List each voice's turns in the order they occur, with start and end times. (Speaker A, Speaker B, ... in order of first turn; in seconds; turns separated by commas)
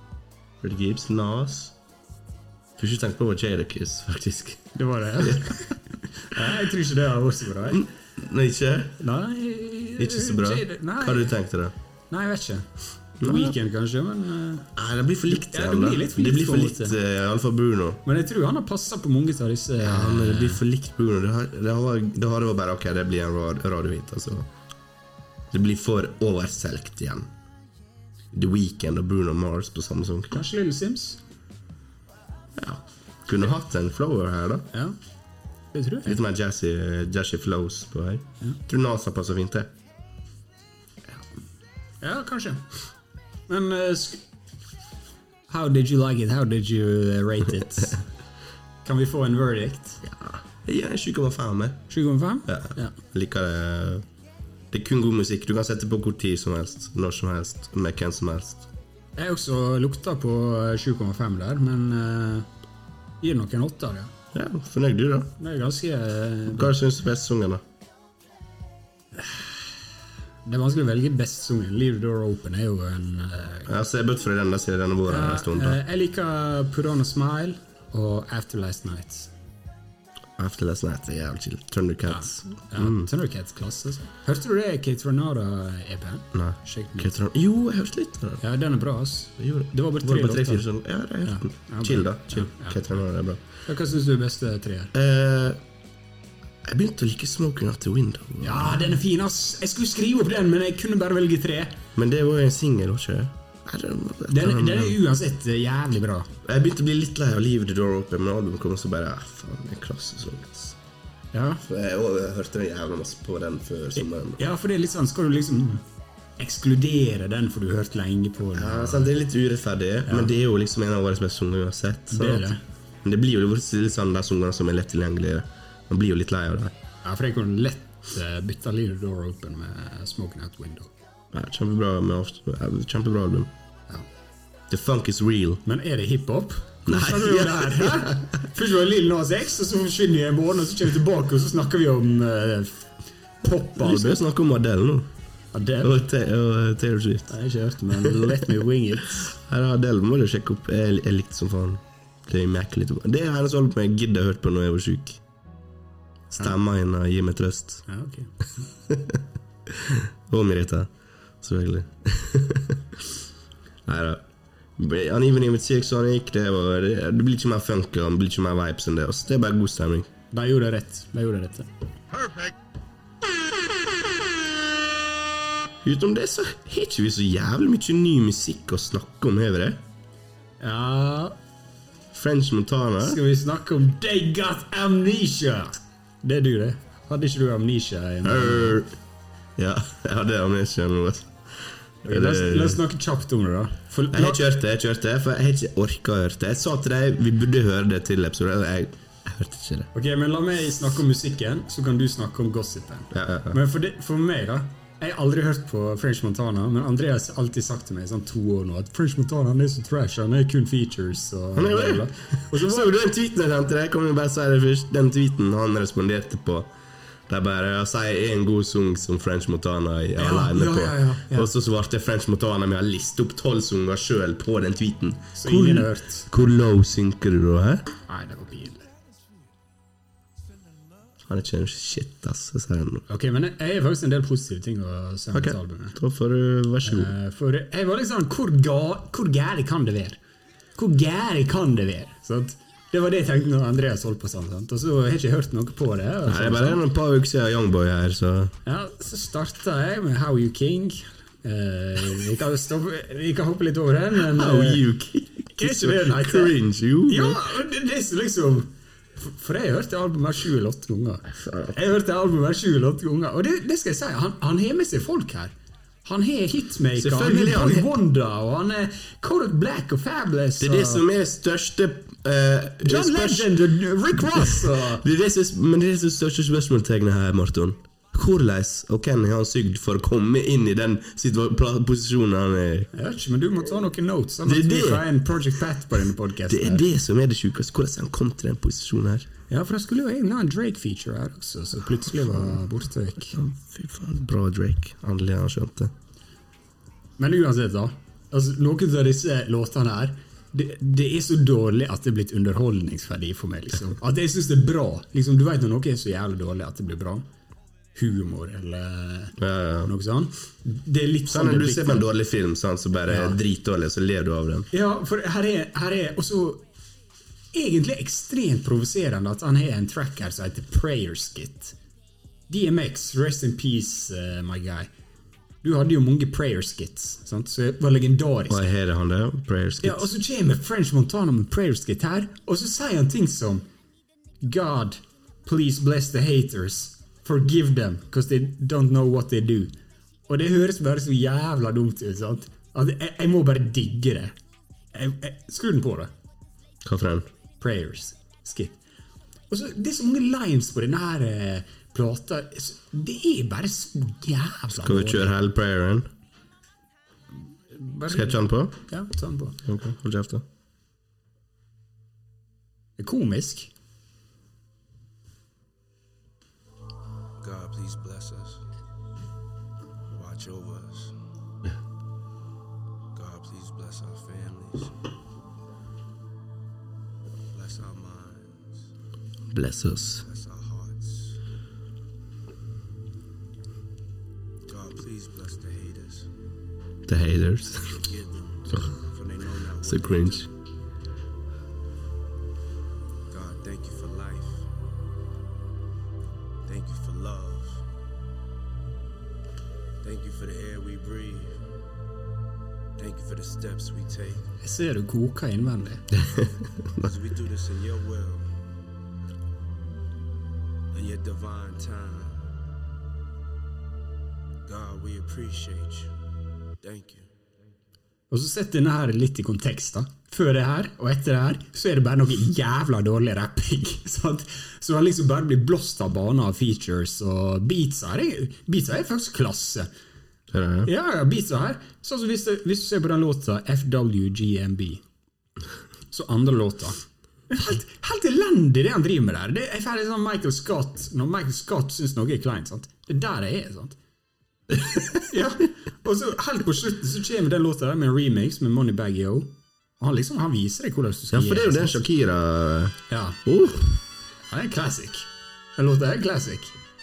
Speaker A: 0.6-1.8, Speaker A: 2.8-5.6, Speaker B: 4.8-7.9, Speaker A: 7.7-9.0, Speaker B: 9.0-11.4, Speaker A: 10.0-11.7, Speaker B: 12.1-14.7, Speaker A: 13.2-13.6, Speaker A: 14.8-18.0, Speaker B: 15.3-17.0, Speaker B: 18.1-20.6, Speaker A: 19.8-24.5, Speaker A: 25.5-27.3, Speaker A: 28.3-30.4, Speaker B: 30.3-31.2, Speaker A: 32.6-34.7, Speaker B: 35.7-36.2, Speaker A: 36.0-39.7, Speaker B: 42.0-42.8, Speaker B: 43.5-44.2, Speaker B: 45.5-48.1, Speaker B: 48.9-50.0, Speaker A: 50.1-51.9, Speaker B: 51.9-52.9, Speaker A: 52.5-54.0, Speaker A: 54.7-58.7, Speaker B: 59.2-62.5, Speaker B: 63.2-64.1, Speaker A: 64.3-65.3, Speaker B: 65.4-66.7, Speaker A: 66.5-67.6, Speaker B: 69.2-69.7, Speaker B: 70.5-73.7, Speaker A: 73.7-75.8, Speaker B: 75.1-79.3, Speaker A: 80.4-83.1, Speaker B: 82.1-87.1, Speaker A: 86.3-88.4, Speaker B: 88.4-90.7, Speaker A: 89.4-93.4, Speaker B: 91.2-92.8, Speaker B: 93.6-94.9, Speaker A: 94.9-95.6, Speaker A: 96.7-98.8, Speaker B: 98.4-101.8, Speaker A: 102.0-105.0, Speaker B: 104.3-106.3, Speaker A: 106.4-110.8, Speaker B: 111.3-111.6, Speaker A: 111.6-114.4, Speaker B: 114.0-115.8, Speaker B: 116.4-119.1, Speaker A: 118.5-126.8, Speaker B: 122.1-122.6, Speaker B: 127.0-130.9, Speaker A: 131.3-133.5, Speaker A: 134.7-135.6, Speaker B: 135.7-144.2, Speaker A: 136.9-138.3, Speaker A: 143.8-145.1, Speaker B: 145.5-146.0, Speaker A: 145.8-147.3, Speaker B: 147.3-149.3, Speaker A: 147.9-148.4, Speaker A: 149.1-155.2, Speaker A: 156.3-157.9, Speaker B: 157.9-158.4, Speaker A: 158.9-163.0, Speaker A: 163.9-164.2, Speaker A: 164.8-170.1, Speaker B: 170.3-171.7, Speaker A: 175.8-179.8, Speaker B: 180.6-181.4, Speaker A: 182.1-183.2, Speaker B: 183.0-188.9, Speaker A: 188.2-188.9, Speaker A: 189.6-192.8, Speaker B: 192.1-194.4, Speaker A: 194.1-199.9, Speaker B: 199.9-212.9, Speaker A: 203.1-203.6, Speaker A: 211.6-216.7, Speaker A: 217.3-227.9, Speaker B: 220.2-221.5, Speaker B: 225.4-226.3, Speaker B: 228.1-228.9, Speaker A: 231.3-233.0, Speaker B: 233.1-236.0, Speaker A: 235.3-237.1, Speaker B: 236.8-240.2, Speaker B: 240.8-246.8, Speaker A: 246.3-248.5, Speaker B: 248.7-254.8, Speaker A: 254.2-257.4, Speaker B: 255.6-271.0, Speaker A: 261.3-261.8, Speaker A: 266.9-267.9, Speaker A: 270.6-282.9, Speaker B: 272.8-275.1, Speaker B: 282.9-286.9, Speaker A: 284.4-285.1, Speaker A: 286.5-289.3, Speaker B: 289.5-293.4, Speaker A: 292.1-292.7, Speaker A: 293.3-295.9, Speaker B: 297.2-307.3, Speaker B: 307.9-312.1, Speaker A: 309.4-309.9, Speaker A: 311.3-314.7, Speaker B: 313.1-313.4, Speaker B: 314.7-316.7, Speaker B: 317.5-321.8, Speaker B: 322.5-324.9, Speaker B: 325.6-328.6, Speaker A: 328.5-330.1, Speaker B: 329.8-333.7, Speaker B: 334.4-339.8, Speaker B: 340.3-344.4, Speaker B: 344.9-346.1, Speaker A: 346.8-347.3, Speaker B: 347.6-348.8, Speaker B: 349.5-355.3, Speaker A: 354.8-356.1, Speaker B: 357.7-359.6, Speaker A: 358.1-358.8, Speaker A: 359.6-360.4, Speaker B: 363.0-363.7, Speaker C: 367.4-368.6, Speaker C: 370.1-371.2, Speaker C: 373.1-375.0, Speaker C: 377.5-378.9, Speaker A: 379.5-380.2, Speaker C: 380.2-381.4, Speaker C: 384.7-386.3, Speaker A: 387.1-388.1, Speaker C: 387.9-390.5, Speaker A: 389.8-390.5, Speaker C: 393.3-394.7, Speaker C: 396.6-397.9, Speaker C: 400.0-401.6, Speaker C: 403.0-404.5, Speaker B: 404.6-406.1, Speaker A: 406.2-407.1, Speaker C: 407.0-408.5, Speaker C: 410.9-412.4, Speaker C: 414.7-416.1, Speaker C: 416.8-417.5, Speaker B: 418.3-429.9, Speaker A: 430.5-430.9, Speaker B: 430.9-435.0, Speaker B: 436.1-444.0, Speaker A: 444.8-445.1, Speaker B: 445.3-452.1, Speaker A: 451.3-454.0, Speaker B: 453.1-453.4, Speaker B: 454.5-456.7